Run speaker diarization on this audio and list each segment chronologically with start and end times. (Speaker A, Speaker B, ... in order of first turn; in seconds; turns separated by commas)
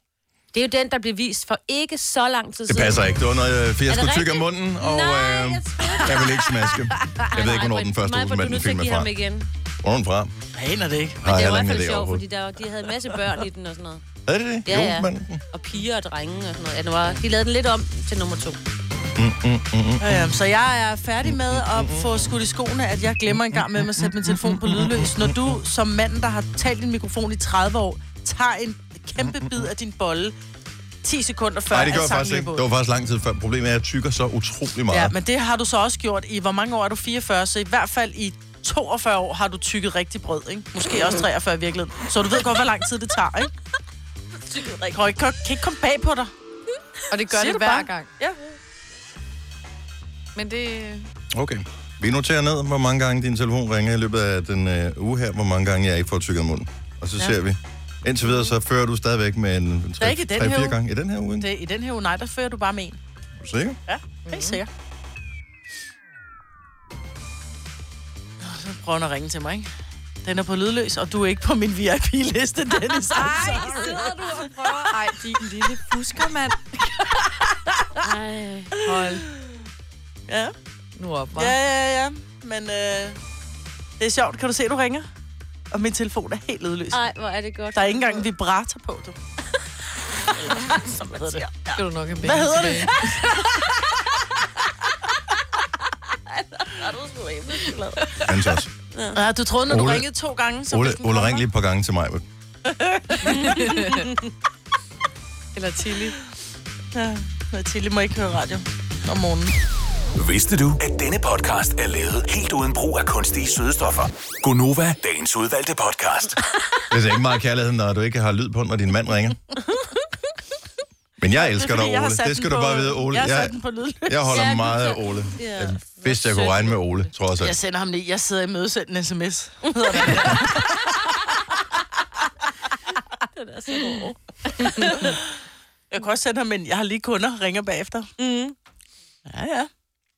Speaker A: 0.5-3.1, Speaker B: 2.7-9.1, Speaker A: 3.9-6.5, Speaker A: 7.3-9.5, Speaker B: 9.8-10.3, Speaker C: 10.5-11.2, Speaker B: 11.2-12.2, Speaker A: 11.2-14.0, Speaker B: 14.3-15.4, Speaker A: 14.7-18.6, Speaker B: 19.2-20.4, Speaker C: 20.0-30.4, Speaker B: 21.3-22.3, Speaker B: 23.5-25.6, Speaker B: 29.2-29.6, Speaker C: 31.0-32.7, Speaker B: 31.7-35.1, Speaker C: 34.9-43.5, Speaker A: 44.5-44.9, Speaker C: 44.8-46.3, Speaker D: 47.1-48.1, Speaker C: 47.3-48.4, Speaker D: 50.4-51.1, Speaker B: 51.3-61.5, Speaker C: 60.0-60.8, Speaker C: 61.4-63.0, Speaker B: 63.4-63.8, Speaker C: 63.9-64.7, Speaker D: 64.3-64.6, Speaker C: 68.4-69.7, Speaker C: 70.2-74.3, Speaker D: 73.1-77.6, Speaker A: 73.6-74.5, Speaker A: 78.0-78.7, Speaker D: 78.8-79.3, Speaker C: 78.9-79.2, Speaker C: 80.3-80.5, Speaker D: 81.0-81.6, Speaker C: 81.4-83.2, Speaker C: 84.0-85.1, Speaker C: 85.7-87.1, Speaker A: 86.9-88.2, Speaker C: 87.7-89.2, Speaker C: 90.3-93.4, Speaker A: 90.5-90.8, Speaker D: 91.7-93.5, Speaker A: 96.3-98.2, Speaker B: 98.2-98.7, Speaker A: 98.9-99.2, Speaker C: 99.1-101.5, Speaker B: 99.7-100.1, Speaker B: 100.7-102.2, Speaker C: 102.7-103.6, Speaker A: 103.2-104.2, Speaker D: 103.4-104.1, Speaker D: 105.5-106.2, Speaker C: 106.9-109.6, Speaker E: 110.2-116.4, Speaker B: 116.9-119.4, Speaker B: 121.2-123.5, Speaker C: 121.3-124.6, Speaker B: 124.1-127.6, Speaker A: 124.3-127.1, Speaker C: 127.4-130.8, Speaker A: 129.9-130.4, Speaker A: 133.3-135.2, Speaker C: 135.0-135.2, Speaker C: 135.9-138.1, Speaker A: 138.2-138.6, Speaker C: 139.3-139.7